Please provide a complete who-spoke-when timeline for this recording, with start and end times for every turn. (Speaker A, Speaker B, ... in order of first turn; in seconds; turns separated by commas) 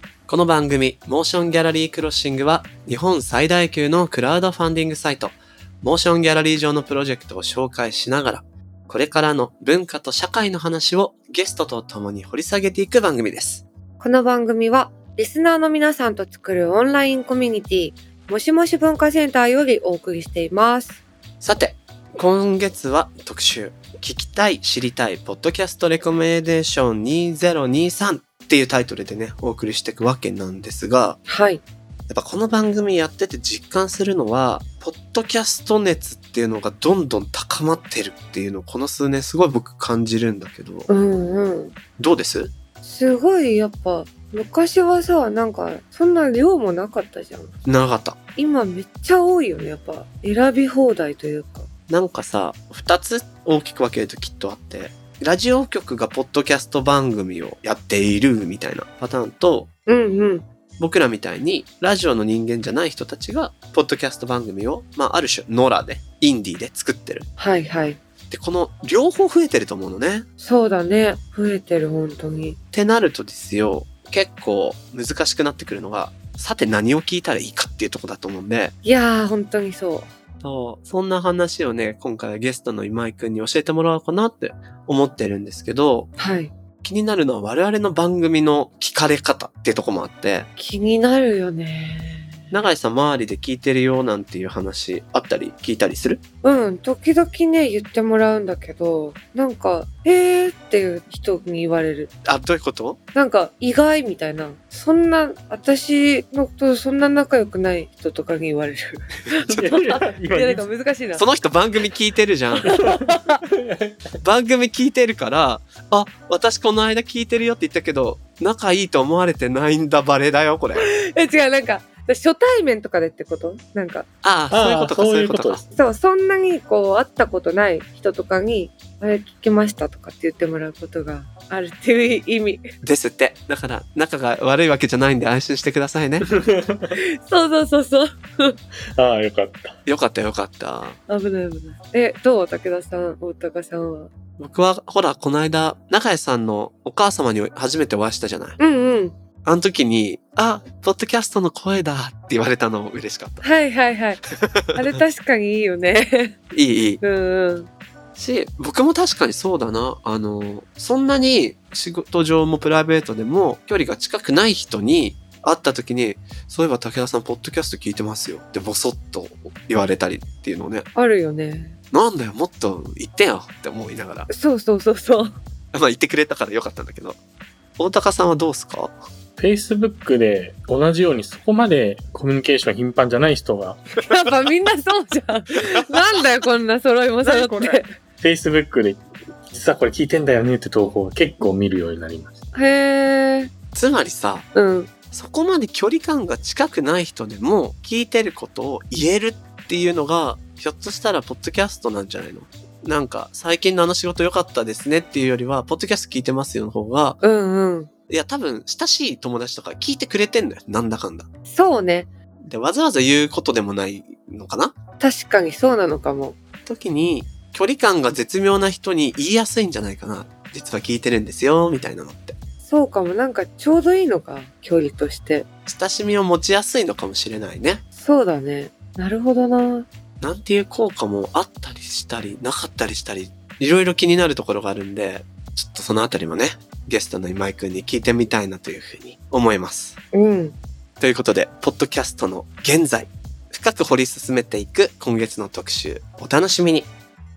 Speaker A: 0.3-13.6, Speaker B: 14.0-21.0, Speaker A: 21.4-31.2, Speaker B: 31.3-31.6, Speaker A: 32.1-40.9, Speaker B: 40.9-41.7, Speaker A: 42.0-42.5, Speaker B: 42.8-47.5, Speaker A: 47.6-48.2, Speaker B: 48.4-51.7, Speaker A: 51.9-59.7, Speaker B: 59.9-60.5, Speaker A: 60.8-67.3, Speaker B: 67.4-68.0, Speaker A: 68.3-70.3, Speaker B: 70.4-72.6, Speaker A: 72.7-78.8, Speaker B: 78.8-80.1, Speaker A: 80.4-86.1, Speaker B: 86.2-86.5, Speaker A: 86.8-90.5, Speaker B: 90.5-92.5, Speaker A: 92.5-96.2, Speaker B: 96.4-102.1, Speaker A: 102.2-103.0, Speaker B: 103.1-111.2, Speaker C: 109.5-110.7, Speaker A: 111.1-112.8, Speaker B: 112.6-113.4, Speaker C: 113.6-114.0, Speaker A: 114.2-120.9, Speaker B: 120.8-124.0, Speaker A: 124.2-125.6, Speaker C: 124.5-125.8, Speaker B: 125.7-132.6, Speaker A: 132.8-136.2, Speaker C: 136.3-137.0, Speaker B: 137.0-138.6, Speaker C: 138.9-139.8, Speaker A: 139.8-141.0, Speaker B: 141.1-144.1, Speaker A: 144.4-148.6, Speaker B: 148.6-149.2, Speaker A: 149.4-153.4, Speaker B: 153.4-154.2, Speaker A: 154.4-154.9, Speaker B: 154.7-156.4, Speaker A: 156.5-157.0, Speaker B: 157.0-157.7, Speaker A: 158.2-170.9, Speaker B: 170.9-171.8, Speaker A: 171.9-174.3, Speaker B: 174.3-175.3, Speaker A: 175.7-177.2, Speaker A: 177.8-179.0, Speaker C: 179.4-183.8, Speaker B: 184.0-187.9, Speaker C: 187.2-192.4, Speaker B: 192.5-193.5, Speaker A: 193.7-194.5, Speaker B: 194.5-194.9, Speaker A: 195.1-207.2, Speaker B: 207.2-207.9, Speaker A: 208.1-211.3, Speaker B: 211.5-212.1, Speaker A: 212.5-214.7, Speaker B: 215.0-216.4, Speaker A: 216.7-222.3, Speaker B: 222.6-225.4, Speaker A: 225.7-227.8, Speaker B: 227.9-229.9, Speaker A: 230.2-240.0, Speaker B: 240.1-240.6, Speaker A: 241.0-246.9